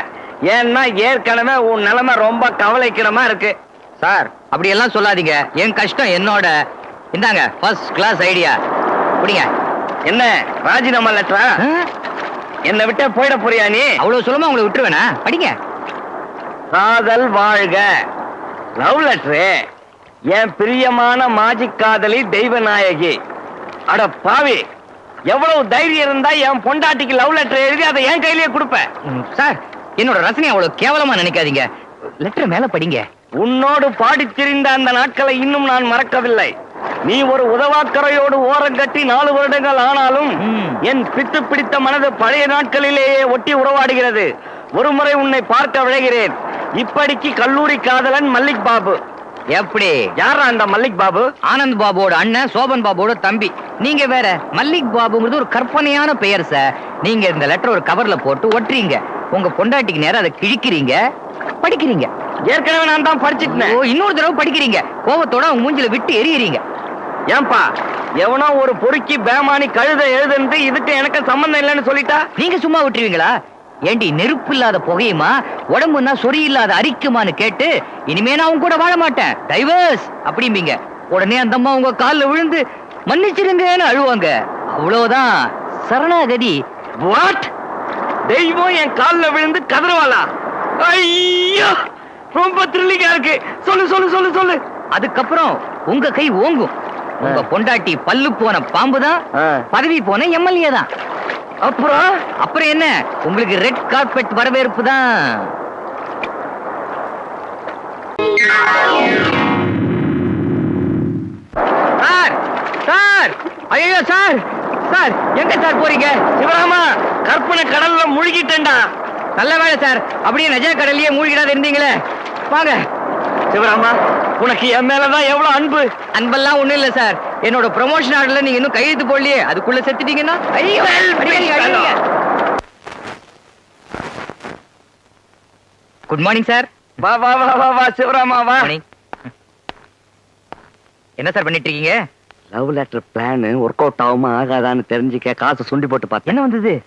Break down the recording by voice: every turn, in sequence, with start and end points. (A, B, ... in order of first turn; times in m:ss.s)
0:00.5-0:03.5 A
0:04.0-0:06.5 B
0:07.1-0:08.5 B
0:09.2-0:09.5 B
0:10.0-0:11.6 A
0:11.6-0:11.9 B
0:12.7-0:13.9 A
0:14.0-0:15.5 B
0:16.7-0:17.8 A
0:18.8-0:19.5 A
0:20.3-0:23.1 A
0:23.9-0:24.6 A
0:25.3-0:28.9 A
0:29.1-0:31.6 B
0:32.2-0:33.0 B
0:33.4-0:36.5 A
0:37.0-0:44.3 A
0:40.4-0:40.8 B
0:44.8-0:49.0 A
0:49.5-0:50.1 B
0:50.2-0:51.3 A
0:51.5-1:01.0 B
1:01.6-1:02.1 B
1:02.5-1:03.8 A
1:03.4-1:06.6 B
1:07.3-1:07.6 A
1:08.2-1:12.2 A
1:12.4-1:13.3 B
1:13.9-1:26.6 B
1:27.0-1:27.5 A
1:28.3-1:30.2 A
1:30.8-1:31.7 A
1:32.3-1:34.6 A
1:34.9-1:40.9 B
1:39.4-1:39.6 A
1:41.6-1:42.2 A
1:42.4-1:45.5 B
1:52.0-1:56.2 B
1:56.4-1:58.8 A
1:59.4-2:02.0 B
2:02.5-2:02.8 B
2:03.5-2:05.9 A
2:06.1-2:12.0 B
2:10.6-2:12.0 A
2:16.1-2:16.7 B
2:17.0-2:18.7 A
2:18.6-2:18.8 B
2:21.2-2:21.9 B
2:22.5-2:26.3 A
2:26.3-2:26.8 B